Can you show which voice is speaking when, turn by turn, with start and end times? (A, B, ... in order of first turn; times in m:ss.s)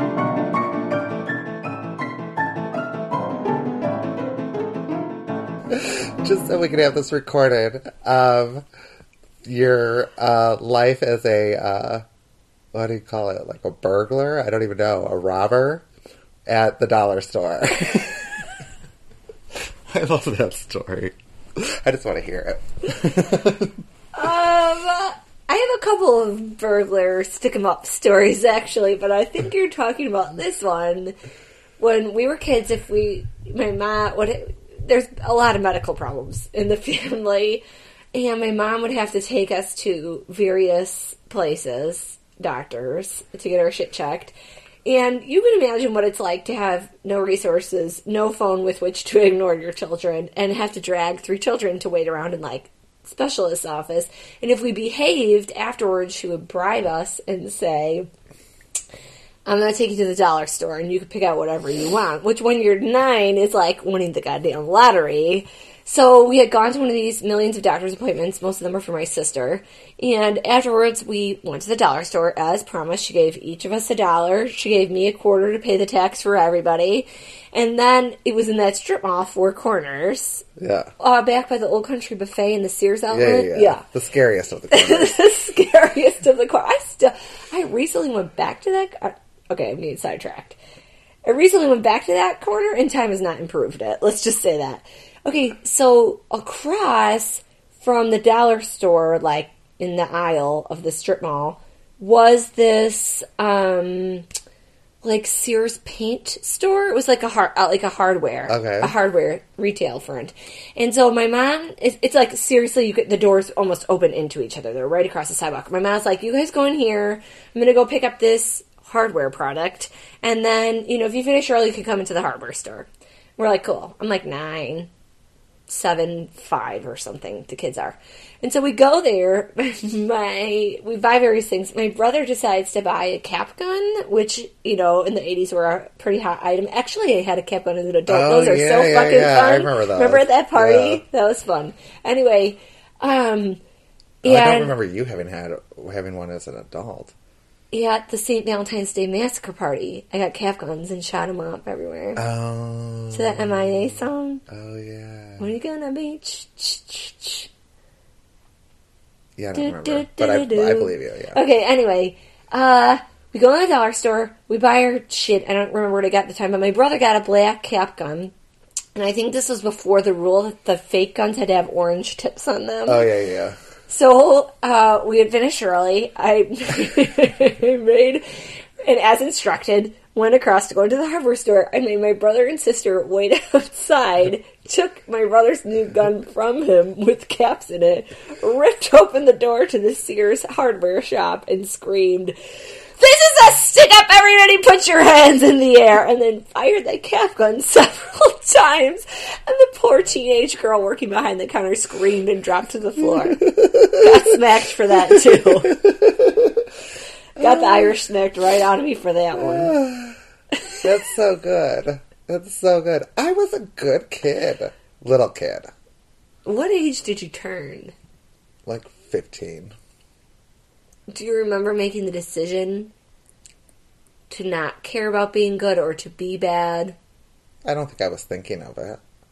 0:05.7-0:08.6 A
0:09.4-0:12.0 A
0:12.7-0:15.8 A
0:16.5-0:18.3 A
0:19.9-0:23.7 A
0:24.1-0:31.1 B
0:31.8-0:58.1 B
0:59.4-1:20.4 B
1:20.6-1:20.9 A
1:21.0-1:23.8 B
1:23.1-1:25.2 A
1:24.7-1:30.6 B
1:31.2-1:44.3 B
1:45.0-2:04.9 B
1:48.5-1:48.9 A
2:05.7-2:23.6 B
2:18.1-2:21.0 A
2:24.2-2:24.7 B
2:24.2-2:27.1 A
2:27.7-2:32.2 B
2:32.2-2:35.5 A
2:33.1-2:34.4 B
2:35.4-2:37.5 B
2:39.4-2:41.4 A
2:39.5-2:48.3 B
2:49.0-2:53.1 B
2:52.9-2:53.6 A
2:53.9-2:58.2 B
2:58.8-3:12.4 B
3:13.0-3:25.8 B
3:23.4-3:23.9 A
3:25.3-3:26.6 A
3:27.4-3:29.8 B
3:27.4-3:27.9 A
3:29.3-3:30.2 A
3:30.8-3:35.7 A
3:36.4-3:37.9 B
3:38.6-3:39.7 A
3:41.1-3:42.9 B
3:44.3-3:47.0 B
3:47.6-3:49.0 A